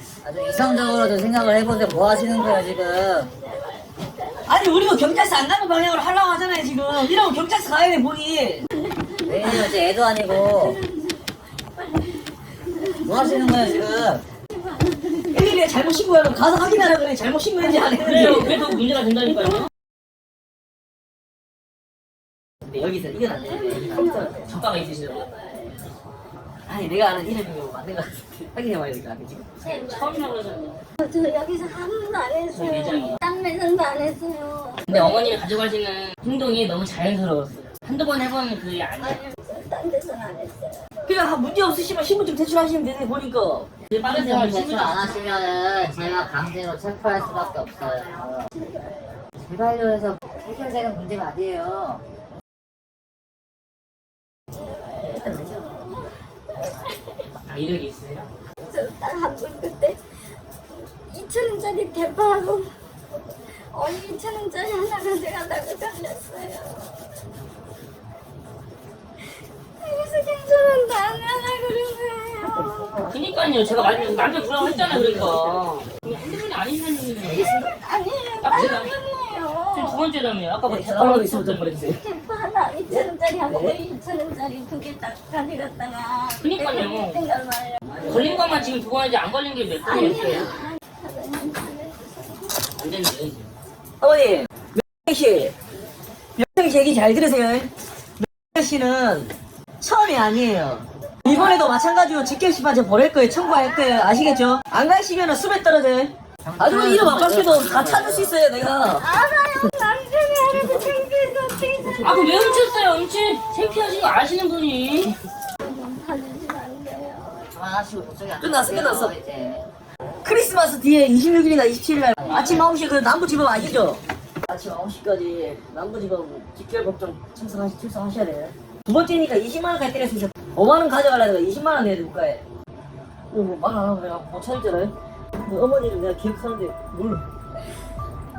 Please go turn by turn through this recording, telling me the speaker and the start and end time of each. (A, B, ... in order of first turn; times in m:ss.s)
0:00.2-0:03.3 A
0:00.2-0:05.4 B
0:04.5-0:08.6 C
0:06.9-0:07.3 B
0:08.7-0:16.1 B
0:09.3-0:10.8 A
0:13.0-0:14.2 A
0:15.3-0:18.7 C
0:17.7-0:18.8 B
0:18.0-0:19.7 D
0:22.7-0:25.1 C
0:23.3-0:26.0 B
0:24.1-0:25.1 D
0:26.7-0:29.6 C
0:29.6-0:30.4 B
0:29.6-0:30.8 D
0:31.0-0:35.4 B
0:32.5-0:33.2 D
0:34.9-0:39.2 D
0:39.0-0:40.9 B
0:41.0-0:43.7 C
0:43.9-0:45.5 D
0:44.0-0:48.5 A
0:47.5-0:49.2 B
0:49.4-0:52.0 A
0:54.6-0:57.3 B
0:57.4-0:58.3 D
0:58.7-1:00.0 B
1:00.7-1:02.7 B
1:03.7-1:06.9 B
1:09.8-1:14.5 B
1:13.1-1:17.7 D
1:14.1-1:15.8 C
1:17.2-1:20.0 B
1:18.4-1:18.9 D
1:19.7-1:21.7 D
1:20.6-1:22.0 C
1:21.9-1:28.7 B
1:22.9-1:23.8 C
1:26.4-1:27.2 D
1:28.0-1:28.3 C
1:28.0-1:30.6 D
1:29.8-1:32.5 B
1:32.8-1:33.5 D
1:34.0-1:35.5 C
1:36.4-1:37.7 C
1:38.2-1:49.0 C
1:41.3-1:41.7 B
1:43.4-1:44.2 B
1:46.4-1:48.3 A
1:48.9-1:52.8 B
1:50.5-1:51.0 C
1:52.0-1:55.2 D
1:55.6-1:57.5 B
1:57.4-1:59.7 A
1:58.4-1:59.2 C
2:00.2-2:12.4 C
2:02.2-2:02.7 A
2:02.3-2:02.6 D
2:13.3-2:17.2 C